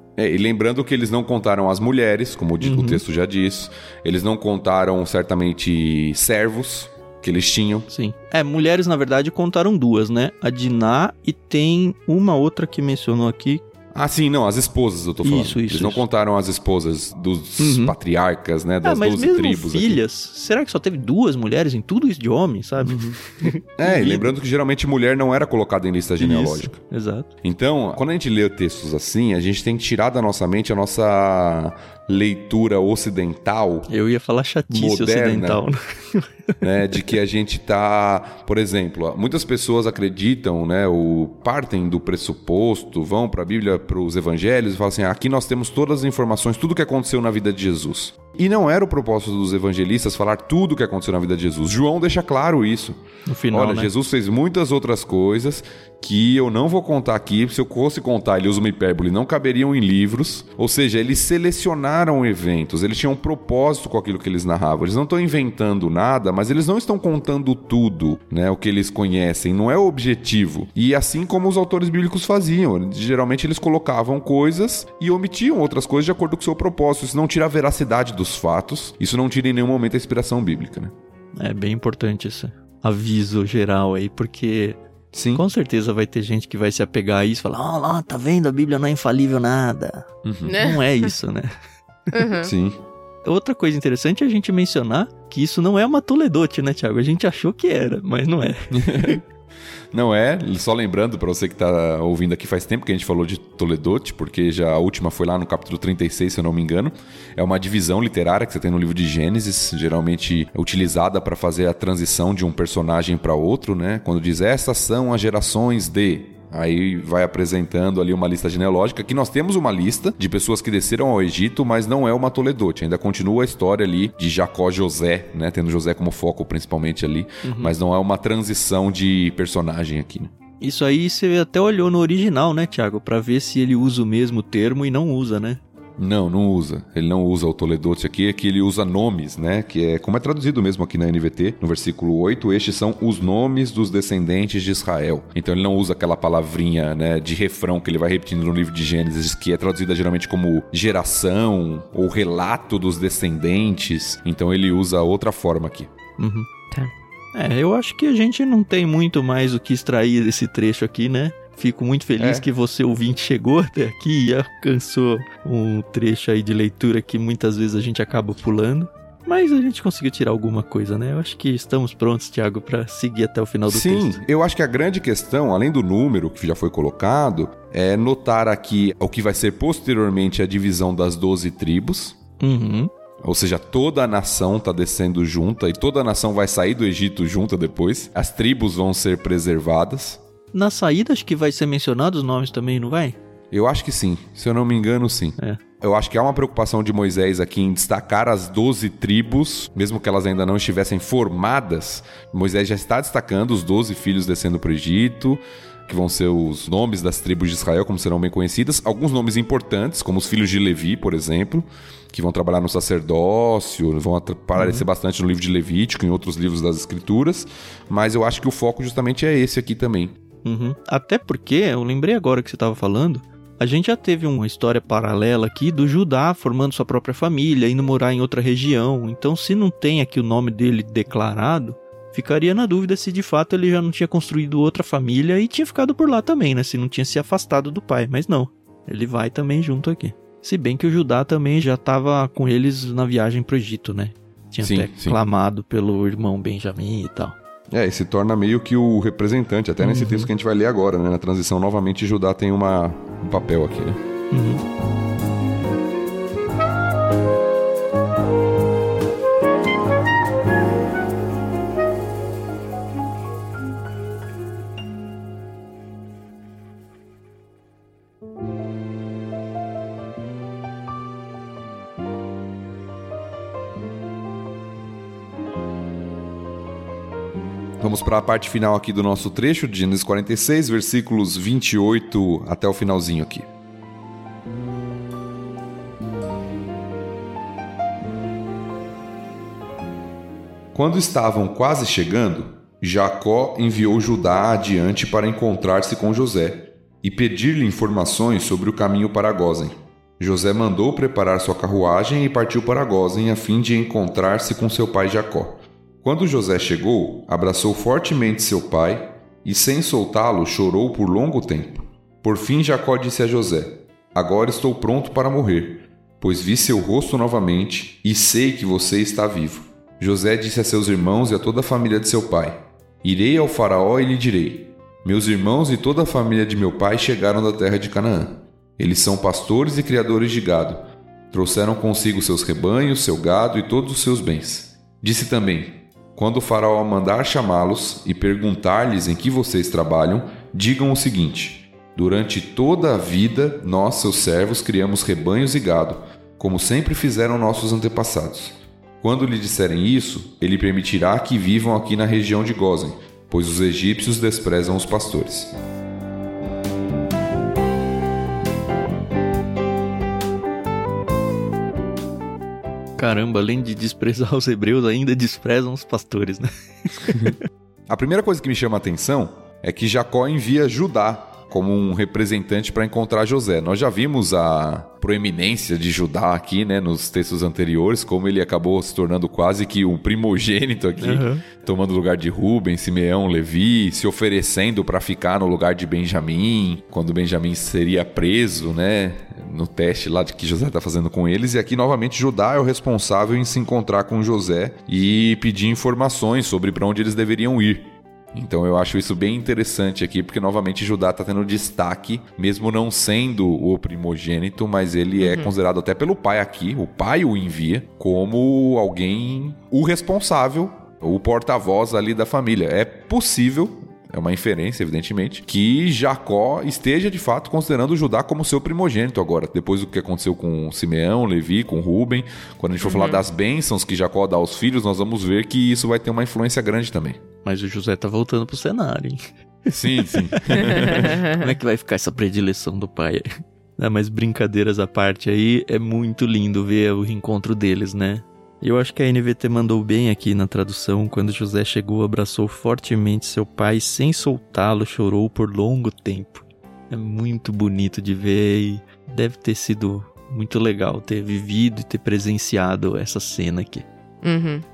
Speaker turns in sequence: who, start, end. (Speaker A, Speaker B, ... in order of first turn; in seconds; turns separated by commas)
Speaker A: 0.2-7.9, Speaker B: 2.6-3.0, Speaker B: 7.9-13.6, Speaker A: 13.9-20.0, Speaker B: 15.2-16.0, Speaker B: 17.6-17.9, Speaker B: 18.8-24.3, Speaker A: 22.8-23.2, Speaker A: 23.8-26.8, Speaker B: 26.2-27.3, Speaker A: 27.4-33.9, Speaker B: 33.9-36.6, Speaker A: 34.7-35.6, Speaker A: 36.6-53.0, Speaker B: 53.2-53.9, Speaker A: 53.5-80.9, Speaker B: 81.3-84.8, Speaker A: 85.1-85.4, Speaker B: 85.3-91.5, Speaker A: 90.2-90.5, Speaker C: 90.5-91.1, Speaker C: 92.1-92.5, Speaker A: 92.4-92.8, Speaker B: 93.2-99.2, Speaker A: 98.7-99.2, Speaker A: 99.9-130.3, Speaker B: 127.4-127.7, Speaker B: 130.6-135.6, Speaker A: 136.0-155.9, Speaker B: 156.2-174.2, Speaker A: 162.2-162.5, Speaker A: 173.7-182.2, Speaker B: 182.4-182.9, Speaker A: 183.2-190.2, Speaker B: 190.5-193.2, Speaker A: 193.5-220.1, Speaker B: 214.6-214.9, Speaker B: 220.4-247.3, Speaker A: 244.6-245.2, Speaker A: 247.7-254.0, Speaker B: 249.8-250.3, Speaker B: 254.3-254.6, Speaker A: 277.8-283.5, Speaker A: 290.7-355.5, Speaker B: 363.0-367.4, Speaker A: 367.9-427.2, Speaker B: 381.0-381.4, Speaker C: 405.2-405.5, Speaker C: 422.8-423.2, Speaker B: 427.4-453.9, Speaker A: 429.7-431.2, Speaker C: 454.2-454.6